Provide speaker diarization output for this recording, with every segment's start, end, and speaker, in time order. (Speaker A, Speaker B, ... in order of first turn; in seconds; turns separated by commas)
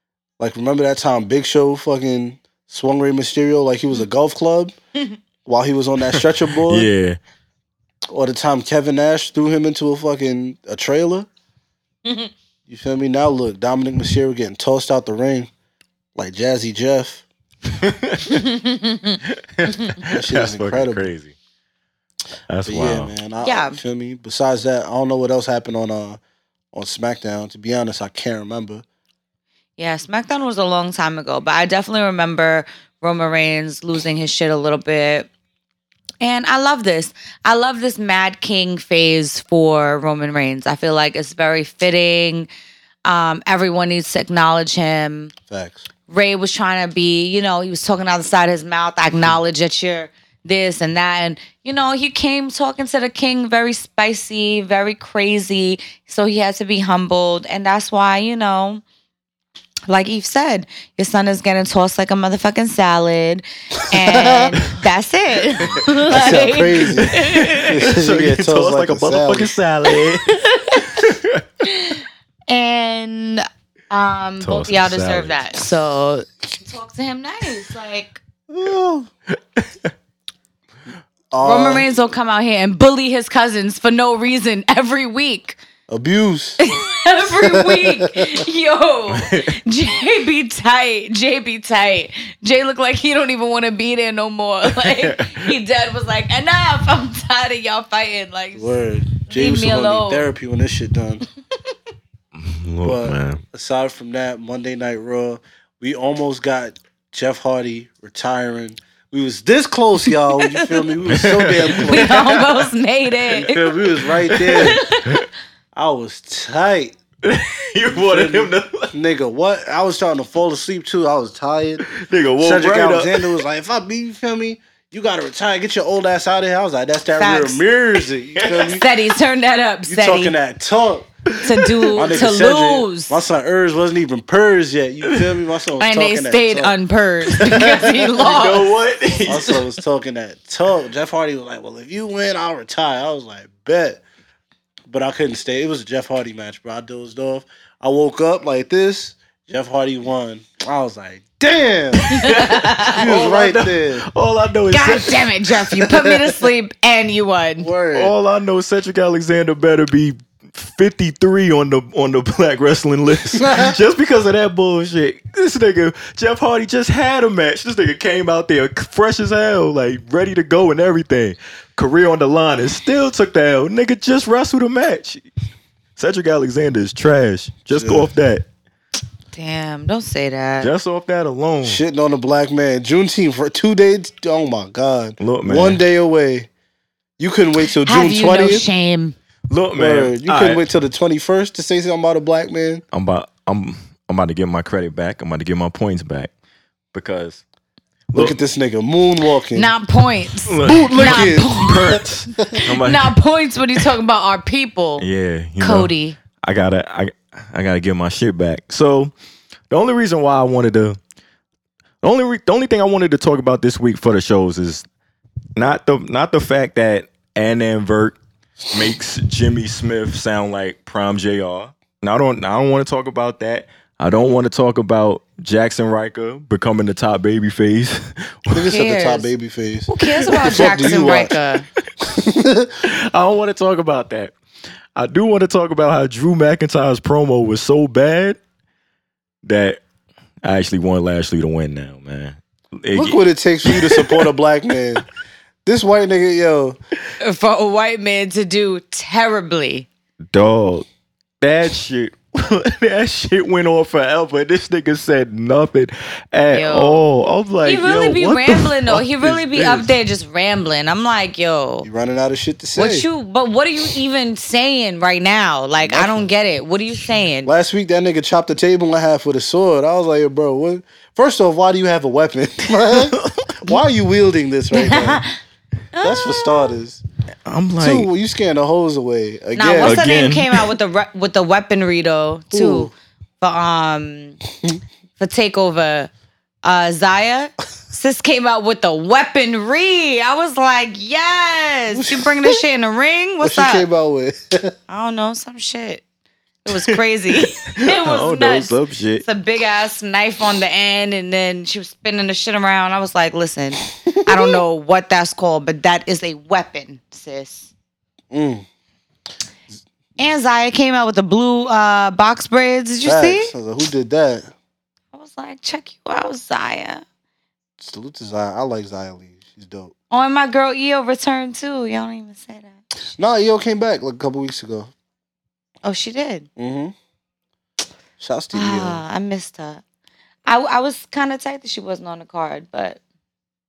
Speaker A: 0.4-4.7, Speaker A: 5.4-6.9, Speaker B: 6.2-7.2, Speaker A: 8.1-11.3, Speaker C: 12.0-12.3, Speaker A: 12.7-15.5, Speaker A: 16.1-17.2, Speaker B: 17.7-18.4, Speaker C: 18.3-19.2, Speaker B: 19.6-21.4, Speaker A: 20.1-21.1, Speaker B: 22.5-23.1, Speaker A: 22.6-26.2, Speaker C: 23.4-23.8, Speaker A: 26.7-28.8, Speaker C: 29.8-35.3, Speaker C: 36.2-42.5, Speaker C: 43.0-45.3, Speaker A: 45.5-45.8, Speaker C: 46.1-58.8, Speaker C: 59.9-67.7, Speaker A: 63.9-64.6, Speaker A: 66.1-69.6, Speaker B: 67.1-71.4, Speaker C: 70.3-71.0, Speaker C: 71.6-78.2, Speaker B: 74.4-75.7, Speaker A: 78.5-79.1, Speaker B: 79.6-79.9, Speaker A: 81.3-81.9, Speaker C: 81.4-85.6, Speaker A: 85.9-86.6, Speaker C: 86.6-98.8, Speaker A: 87.2-88.4, Speaker B: 89.1-89.5, Speaker B: 94.7-95.5, Speaker A: 98.5-101.2, Speaker C: 99.3-100.3, Speaker B: 102.3-103.4, Speaker A: 102.8-112.4, Speaker C: 110.4-110.9, Speaker B: 111.1-112.6, Speaker C: 111.8-113.6, Speaker A: 113.4-114.8, Speaker B: 114.2-115.2, Speaker C: 114.5-115.2, Speaker A: 115.7-117.0, Speaker B: 117.2-118.9, Speaker A: 117.9-121.8, Speaker B: 121.9-123.4, Speaker A: 122.4-128.8, Speaker C: 127.2-127.6, Speaker B: 128.4-128.7, Speaker C: 128.7-130.3, Speaker A: 129.9-131.1, Speaker C: 131.4-133.2, Speaker A: 131.9-136.7, Speaker C: 135.8-138.7, Speaker A: 137.3-138.3, Speaker B: 138.2-139.6, Speaker A: 139.2-144.0, Speaker A: 144.9-152.2, Speaker B: 152.0-155.2, Speaker C: 152.2-153.0, Speaker A: 152.9-154.1, Speaker C: 154.7-157.7, Speaker A: 155.8-156.2, Speaker A: 157.6-158.1, Speaker B: 157.9-175.2, Speaker A: 163.3-163.8, Speaker B: 175.9-178.4, Speaker A: 177.7-178.1, Speaker C: 179.3-180.7, Speaker B: 180.6-181.8, Speaker A: 181.6-186.5, Speaker B: 185.2-185.8, Speaker A: 187.2-188.7, Speaker C: 187.8-189.2, Speaker B: 189.5-190.6, Speaker A: 189.8-192.8, Speaker B: 192.9-196.3, Speaker B: 196.9-197.4, Speaker A: 198.1-199.7, Speaker C: 199.5-201.8, Speaker B: 200.5-203.2, Speaker A: 200.6-202.6, Speaker C: 202.6-205.1, Speaker B: 205.0-209.1, Speaker C: 205.6-206.2, Speaker B: 209.7-211.0, Speaker B: 212.0-214.8, Speaker B: 215.6-218.2, Speaker B: 218.7-228.7, Speaker A: 228.5-231.3, Speaker C: 228.6-229.3, Speaker C: 229.9-231.7, Speaker B: 230.3-230.7, Speaker A: 232.0-232.7, Speaker B: 232.8-234.3, Speaker B: 234.9-238.4, Speaker B: 239.4-239.8, Speaker B: 240.4-244.3, Speaker A: 242.9-245.0, Speaker A: 245.6-246.8, Speaker C: 247.2-249.9, Speaker B: 250.3-250.9, Speaker B: 251.4-259.9, Speaker C: 256.5-257.1, Speaker C: 257.6-261.9, Speaker A: 261.8-263.1, Speaker C: 262.8-267.5, Speaker A: 265.8-266.2, Speaker A: 267.4-275.2, Speaker B: 272.9-273.5, Speaker C: 274.7-275.3, Speaker C: 275.9-276.7, Speaker A: 276.0-277.0, Speaker B: 277.4-278.1, Speaker A: 277.8-280.0, Speaker C: 279.5-284.4, Speaker B: 279.8-280.6, Speaker A: 282.5-282.9, Speaker C: 285.2-286.1, Speaker C: 286.6-293.9, Speaker A: 291.9-292.6, Speaker A: 293.4-294.8, Speaker C: 294.9-296.0, Speaker C: 296.6-307.7, Speaker B: 296.7-299.2, Speaker A: 304.1-304.6, Speaker A: 308.3-308.6, Speaker C: 310.2-313.5, Speaker A: 313.0-314.5, Speaker C: 315.1-317.0, Speaker A: 317.8-319.9, Speaker C: 320.1-322.8, Speaker A: 323.1-324.9, Speaker C: 325.8-326.5, Speaker A: 326.6-326.9, Speaker A: 328.2-329.0, Speaker C: 328.5-329.8, Speaker C: 330.5-333.0